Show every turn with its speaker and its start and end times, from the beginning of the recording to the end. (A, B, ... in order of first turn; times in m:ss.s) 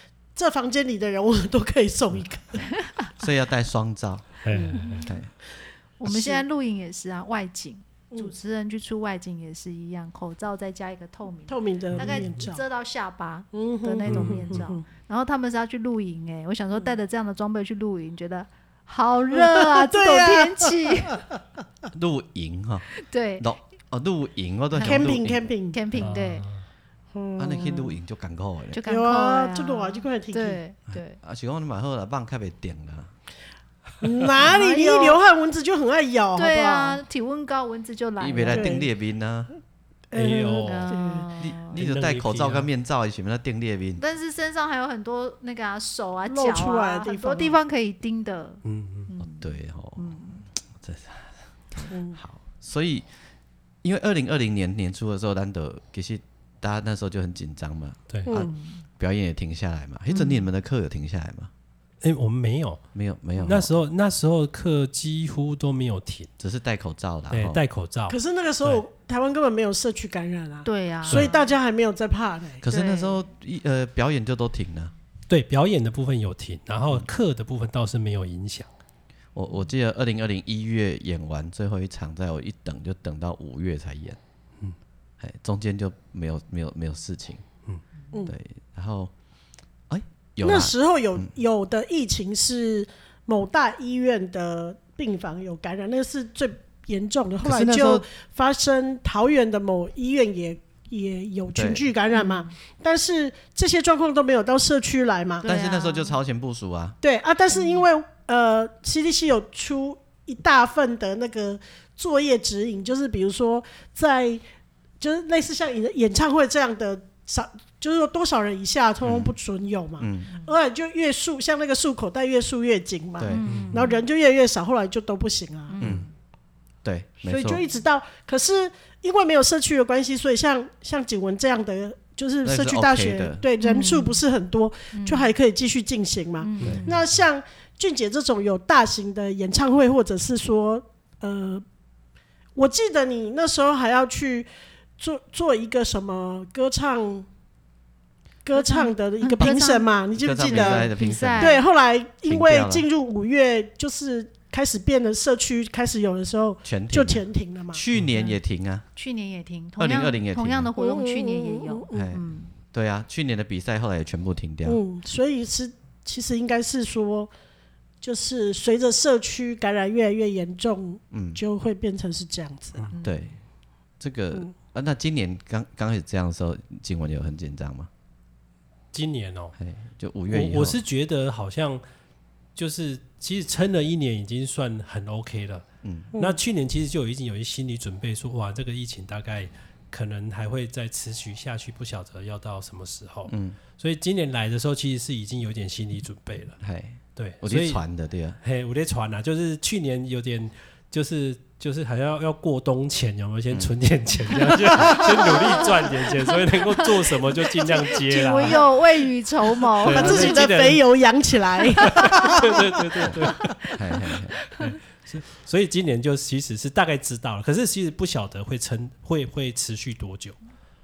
0:00.4-0:02.7 A
0:03.2-0:05.3 B
0:04.4-0:05.0 C
0:04.5-0:04.8 A
0:04.8-0:05.1 D
0:06.0-0:21.2 D
0:06.1-0:06.4 A
0:11.5-0:12.6 A
0:11.9-0:12.5 C
0:13.5-0:14.8 A
0:14.1-0:14.7 C
0:19.3-0:21.2 A
0:21.9-0:26.1 B
0:23.0-0:23.5 D
0:24.7-0:25.2 D
0:24.8-0:25.8 A
0:25.7-0:26.5 D
0:26.0-0:26.6 C
0:27.1-0:27.9 A
0:27.4-0:28.8 B
0:28.7-0:31.2 D
0:28.9-0:30.6 A
0:30.9-0:33.1 B
0:34.0-0:37.0 A
0:34.4-0:35.2 D
0:36.4-0:38.8 D
0:38.2-0:39.5 B
0:38.5-0:38.9 A
0:40.1-0:41.3 A
0:40.1-0:41.0 C
0:40.6-0:41.8 D
0:41.4-0:44.0 B
0:41.7-0:42.7 C
0:44.0-0:50.4 D
0:46.3-0:47.6 A
0:48.6-0:49.1 C
0:49.2-0:53.1 B
0:51.9-0:52.2 A
0:53.8-1:01.5 B
0:58.3-0:58.6 A
0:58.6-0:58.8 D
1:00.1-1:00.5 D
1:02.0-1:02.8 C
1:02.9-1:03.7 B
1:03.4-1:06.3 C
1:06.4-1:07.6 B
1:07.3-1:08.8 C
1:08.1-1:12.6 A
1:10.6-1:11.6 D
1:11.1-1:11.3 C
1:12.6-1:14.9 B
1:12.7-1:13.2 D
1:15.3-1:18.7 C
1:19.4-1:24.2 B
1:25.2-1:27.4 B
1:28.3-1:29.1 B
1:29.9-1:31.3 B
1:30.4-1:45.5 A
1:37.4-1:38.0 B
1:41.5-1:41.9 B
1:42.1-1:42.5 D
1:45.4-1:46.2 D
1:45.5-1:47.0 B
1:47.0-1:54.4 A
1:47.5-1:47.8 D
1:55.0-2:05.8 A
1:59.0-1:59.4 B
2:00.0-2:00.3 B
2:03.2-2:03.5 B
2:03.3-2:04.0 D
2:03.5-2:03.9 C
2:05.7-2:06.1 D
2:06.8-2:07.6 B
2:07.2-2:21.6 A
2:12.4-2:13.4 B
2:13.6-2:14.2 D
2:14.9-2:15.3 D
2:16.4-2:17.0 D
2:16.6-2:16.9 C
2:22.6-2:27.3 A
2:28.4-2:37.8 A
2:28.5-2:31.6 D
2:30.2-2:31.6 B
2:32.2-2:32.9 B
2:36.6-2:38.9 B
2:39.0-2:42.5 D
2:39.8-2:40.7 B
2:40.8-2:42.0 A
2:41.9-2:44.8 B
2:44.7-2:47.3 A
2:48.0-2:52.9 A
2:51.1-2:51.4 B
2:52.9-2:53.3 D
2:53.0-2:53.4 B
2:54.0-2:57.9 B
2:58.9-2:59.6 C
2:59.6-3:00.8 B
3:00.3-3:01.8 C
3:02.6-3:16.6 C
3:05.8-3:06.1 B
3:13.3-3:13.6 B
3:16.6-3:18.4 B
3:17.2-3:17.8 C
3:18.4-3:28.6 C
3:27.9-3:30.5 D
3:29.8-3:30.8 C
3:29.9-3:32.6 A
3:31.8-3:33.8 C
3:33.1-3:34.4 B
3:34.6-3:40.4 C